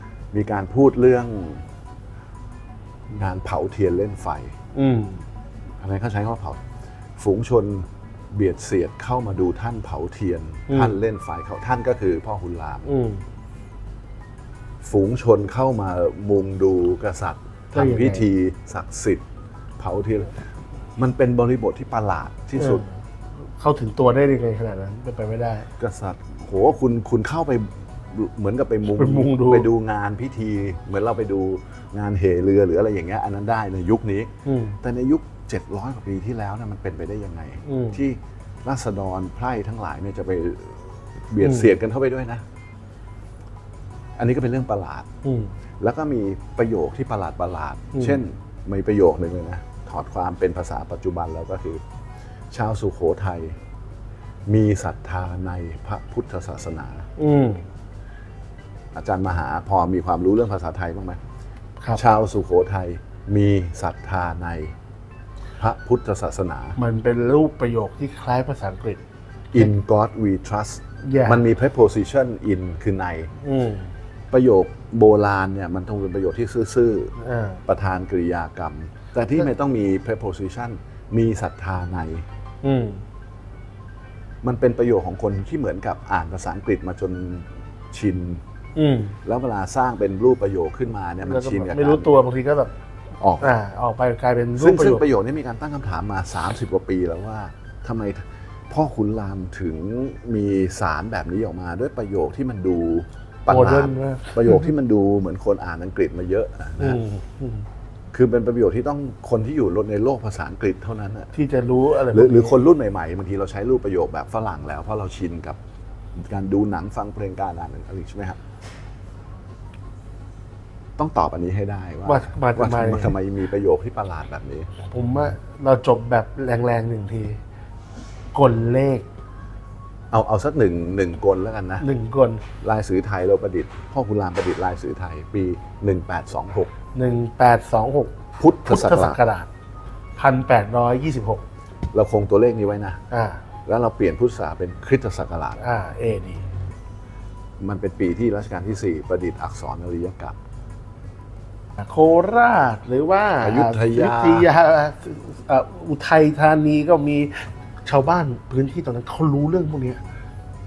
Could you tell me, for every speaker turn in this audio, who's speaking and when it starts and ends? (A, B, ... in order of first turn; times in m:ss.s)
0:00.3-0:01.6 A
0:03.1-0:04.5 A
0:04.7-0:05.2 B
0:05.8-0:06.6 A
0:07.2-0:12.9 A
0:10.7-0:11.0 B
0:12.8-0:13.2 B
0:14.8-0:19.2 A
0:17.7-0:18.2 B
0:19.8-0:20.3 A
0:21.0-0:22.8 A
0:22.6-0:22.9 B
0:23.6-0:25.7 B
0:25.8-0:42.4 A
0:28.9-0:29.7 B
0:34.4-0:34.8 B
0:37.6-0:38.0 B
0:41.4-0:41.7 B
0:44.2-0:45.1 A
0:45.2-0:45.5 B
0:45.8-0:51.8 A
0:52.5-0:53.6 A
0:54.5-0:57.1 A
0:57.2-0:57.6 B
0:58.9-1:01.2 A
1:01.9-1:04.7 A
1:05.6-1:06.8 A
1:06.8-1:09.0 B
1:09.5-1:13.3 A
1:11.0-1:11.4 B
1:13.4-1:13.9 B
1:14.3-1:17.1 A
1:17.2-1:17.6 B
1:17.7-1:22.2 A
1:22.6-1:23.0 B
1:24.4-1:28.4 A
1:28.8-1:29.2 B
1:29.2-1:32.1 A
1:31.2-1:32.7 B
1:33.2-1:33.5 A
1:33.4-1:35.0 B
1:34.6-1:47.0 A
1:43.5-1:44.6 B
1:46.8-1:47.6 B
1:48.1-1:51.3 A
1:51.3-1:52.6 B
1:52.1-1:55.6 A
1:56.2-1:58.4 A
2:01.0-2:04.7 A
2:02.0-2:03.1 B
2:04.9-2:07.4 B
2:08.3-2:09.0 B
2:10.1-2:11.8 A
2:11.8-2:12.4 B
2:12.6-2:16.7 A
2:16.9-2:19.5 B
2:18.4-2:19.2 A
2:20.2-2:21.4 B
2:21.9-2:23.0 A
2:23.1-2:23.4 B
2:23.6-2:25.6 A
2:25.6-2:26.4 B
2:27.6-2:30.4 A
2:31.8-2:40.0 B
2:33.4-2:34.5 A